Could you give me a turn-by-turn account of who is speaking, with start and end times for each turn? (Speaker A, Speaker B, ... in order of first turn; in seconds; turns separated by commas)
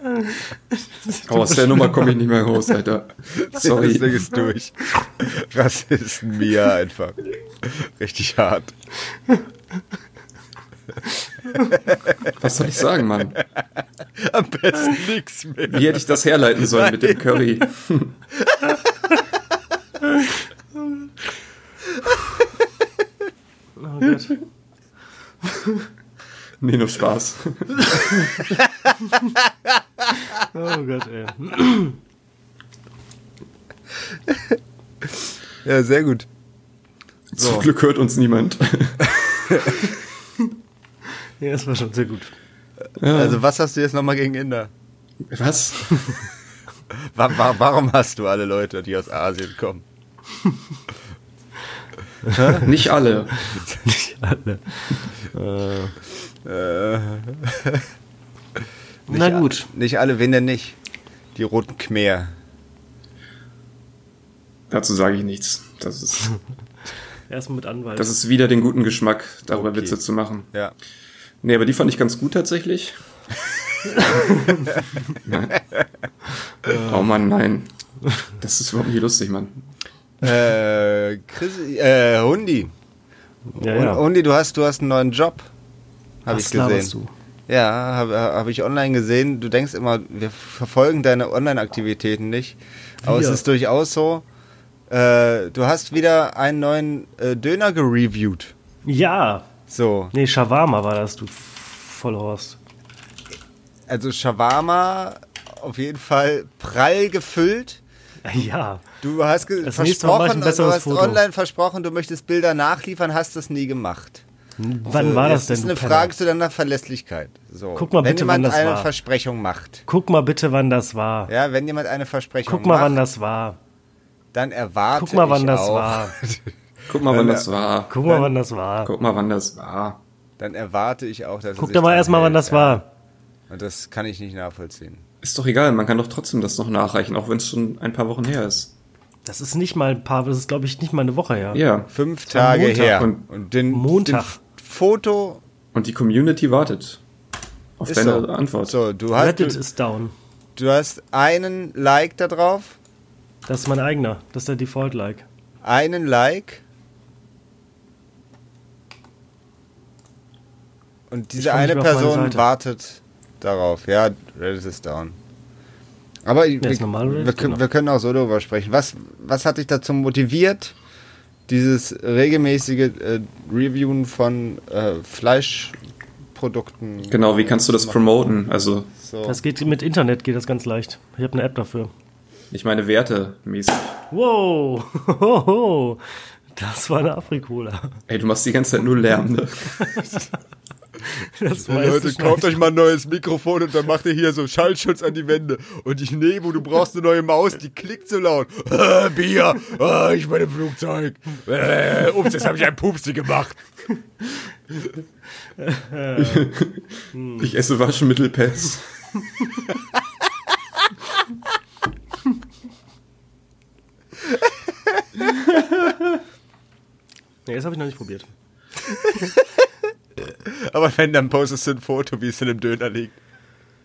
Speaker A: 0.1-2.1, Speaker B: 1.3-4.3, Speaker C: 3.5-8.7, Speaker B: 12.3-13.4, Speaker C: 14.2-16.1, Speaker B: 15.7-18.1, Speaker C: 16.6-17.2, Speaker C: 18.4-19.2, Speaker A: 23.8-24.4, Speaker A: 25.5-25.8, Speaker B: 26.6-28.5, Speaker A: 30.5-32.0, Speaker C: 34.3-34.6, Speaker C: 35.6-36.3, Speaker B: 37.3-39.7, Speaker C: 37.4-37.7, Speaker A: 41.4-42.3, Speaker B: 43.0-43.4, Speaker C: 43.0-44.7, Speaker B: 45.3-46.2, Speaker C: 46.9-49.8, Speaker A: 52.3-52.6, Speaker C: 52.3-52.7, Speaker B: 52.6-53.4, Speaker A: 53.6-56.0, Speaker C: 56.4-57.9, Speaker A: 59.1-59.7, Speaker C: 59.1-60.8, Speaker C: 61.4-62.3, Speaker B: 64.7-66.4, Speaker A: 67.3-68.1, Speaker B: 68.0-70.5, Speaker C: 69.5-70.0, Speaker B: 71.4-73.0, Speaker A: 74.0-74.7, Speaker B: 75.1-75.6, Speaker B: 76.7-77.7, Speaker B: 78.4-79.6, Speaker C: 80.2-82.7, Speaker A: 83.5-84.0, Speaker C: 83.6-85.5, Speaker C: 86.2-86.9, Speaker A: 86.3-87.1, Speaker C: 87.5-94.2, Speaker A: 93.0-93.4, Speaker C: 94.9-98.5, Speaker A: 98.8-99.5, Speaker C: 99.7-100.1, Speaker A: 100.1-102.6, Speaker C: 103.9-107.8, Speaker A: 108.2-108.8, Speaker C: 109.0-114.2, Speaker A: 109.6-111.2, Speaker A: 114.6-116.1, Speaker C: 114.9-119.8, Speaker A: 117.8-118.9, Speaker A: 119.9-121.3, Speaker C: 121.3-123.0, Speaker A: 122.5-123.6, Speaker C: 124.3-127.5, Speaker A: 125.0-126.2, Speaker B: 126.9-128.3, Speaker A: 127.9-128.9, Speaker B: 128.8-130.0, Speaker C: 130.4-132.8, Speaker A: 131.6-132.9, Speaker C: 133.5-135.0, Speaker B: 135.2-138.7, Speaker A: 139.2-141.6, Speaker B: 141.5-141.9, Speaker C: 141.9-145.4, Speaker A: 142.3-143.1, Speaker B: 142.8-143.2, Speaker A: 143.7-144.4, Speaker B: 145.7-147.0, Speaker B: 147.8-148.8, Speaker C: 147.9-149.6, Speaker A: 149.2-150.1, Speaker C: 150.6-152.8, Speaker A: 153.5-155.3, Speaker C: 155.6-156.6, Speaker C: 161.1-165.2, Speaker A: 161.4-162.4, Speaker C: 166.2-170.8, Speaker A: 166.6-167.6, Speaker C: 171.5-175.8, Speaker C: 176.3-178.0, Speaker B: 177.1-178.9, Speaker C: 179.0-179.4, Speaker A: 179.2-181.9, Speaker B: 182.5-184.0, Speaker A: 184.1-186.0, Speaker A: 186.6-188.0, Speaker B: 188.1-190.1, Speaker A: 189.9-190.3, Speaker A: 191.2-192.6, Speaker C: 191.6-203.6, Speaker A: 205.6-206.5, Speaker B: 206.2-209.2, Speaker A: 207.1-207.6, Speaker C: 214.9-215.2, Speaker A: 217.5-218.3, Speaker C: 219.0-223.2